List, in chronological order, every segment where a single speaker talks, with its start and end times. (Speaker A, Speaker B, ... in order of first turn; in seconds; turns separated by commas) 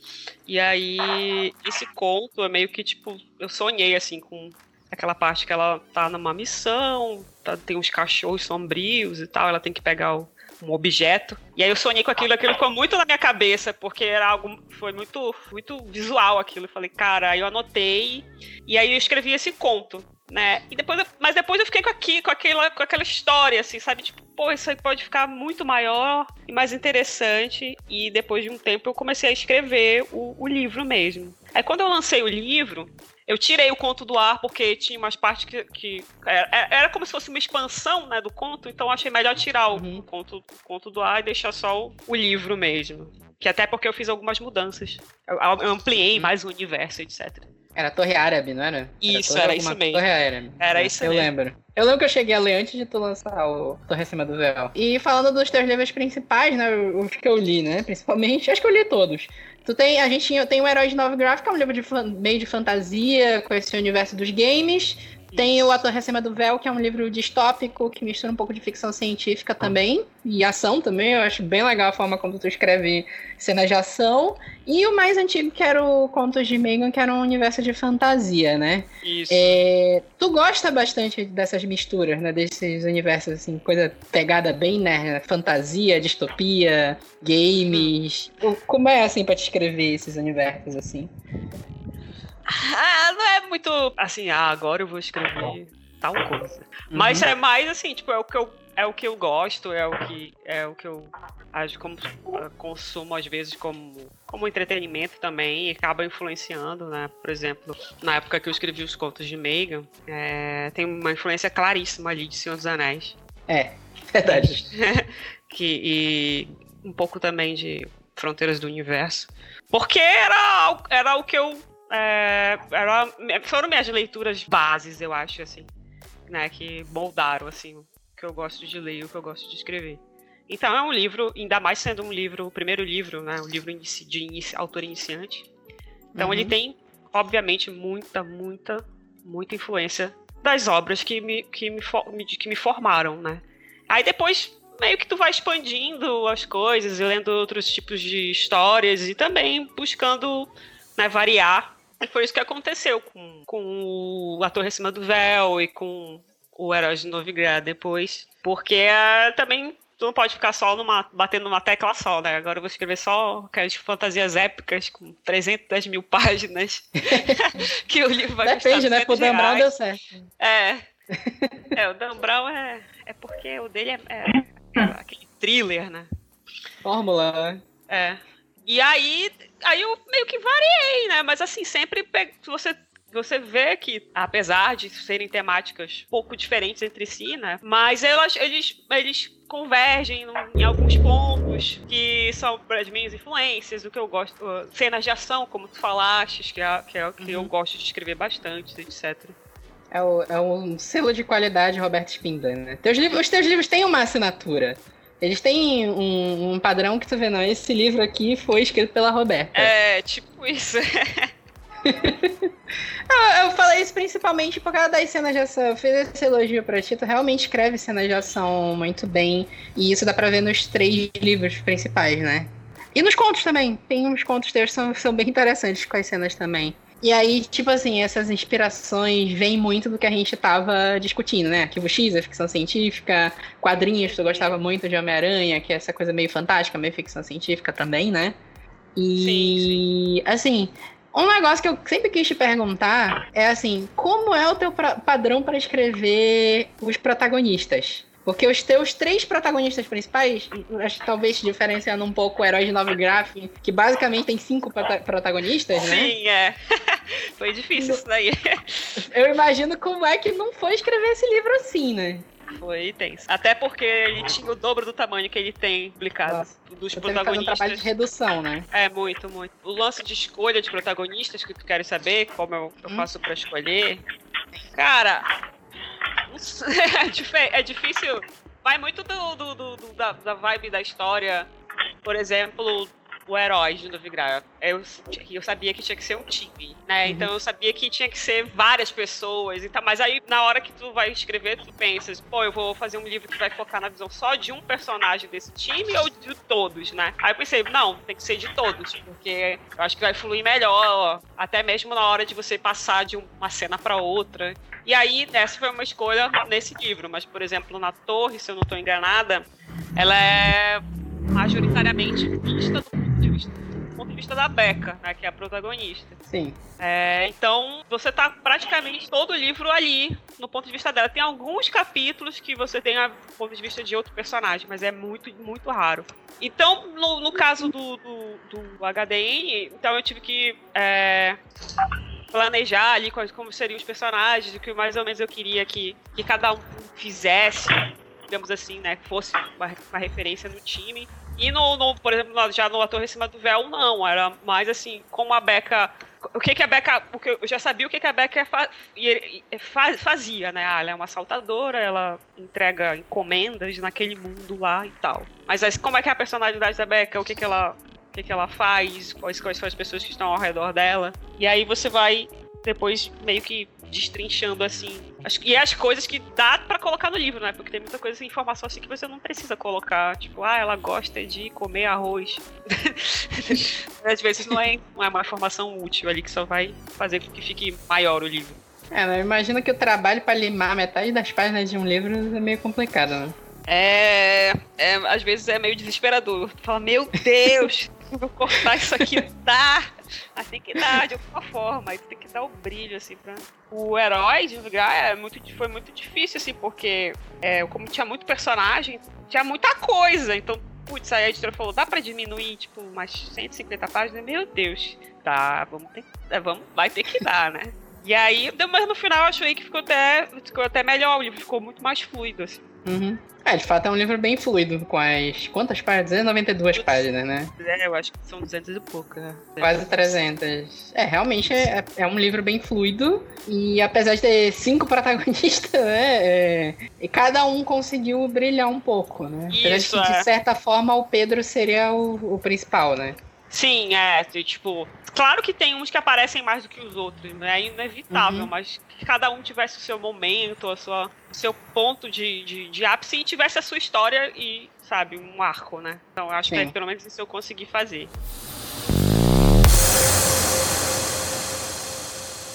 Speaker A: 0.5-47.5, Speaker B: 39.7-40.0, Speaker B: 47.8-91.1, Speaker A: 49.0-50.1, Speaker A: 50.6-51.3, Speaker A: 65.3-65.7, Speaker A: 79.0-79.6, Speaker A: 92.5-113.2, Speaker B: 96.9-97.3, Speaker B: 113.5-114.7, Speaker A: 114.2-125.7, Speaker A: 126.3-135.5, Speaker B: 136.2-136.5, Speaker A: 136.2-169.7, Speaker B: 167.1-167.4, Speaker B: 168.4-170.0, Speaker A: 170.4-170.9, Speaker B: 171.1-171.7, Speaker A: 171.7-176.1, Speaker B: 176.8-177.6, Speaker A: 177.9-199.4, Speaker B: 197.2-197.5, Speaker B: 199.9-209.7, Speaker A: 209.5-211.3, Speaker B: 211.8-212.5, Speaker B: 213.1-238.4, Speaker A: 234.0-234.6, Speaker B: 239.0-256.1, Speaker A: 239.2-239.8, Speaker A: 255.8-259.0, Speaker B: 257.8-258.0, Speaker B: 259.0-262.2, Speaker A: 262.5-267.9, Speaker B: 266.3-268.7, Speaker A: 268.7-274.0, Speaker B: 272.8-273.1, Speaker A: 274.7-275.3, Speaker A: 276.3-281.5, Speaker A: 282.0-316.2, Speaker B: 287.1-287.3, Speaker B: 316.3-316.6, Speaker A: 316.8-331.4, Speaker A: 332.3-378.6, Speaker B: 378.9-383.4, Speaker A: 383.7-412.6, Speaker B: 412.9-417.5, Speaker A: 416.7-417.1, Speaker A: 417.6-419.8, Speaker B: 419.6-433.2, Speaker A: 429.5-430.3, Speaker A: 433.5-448.1, Speaker B: 438.1-438.5, Speaker B: 446.4-446.8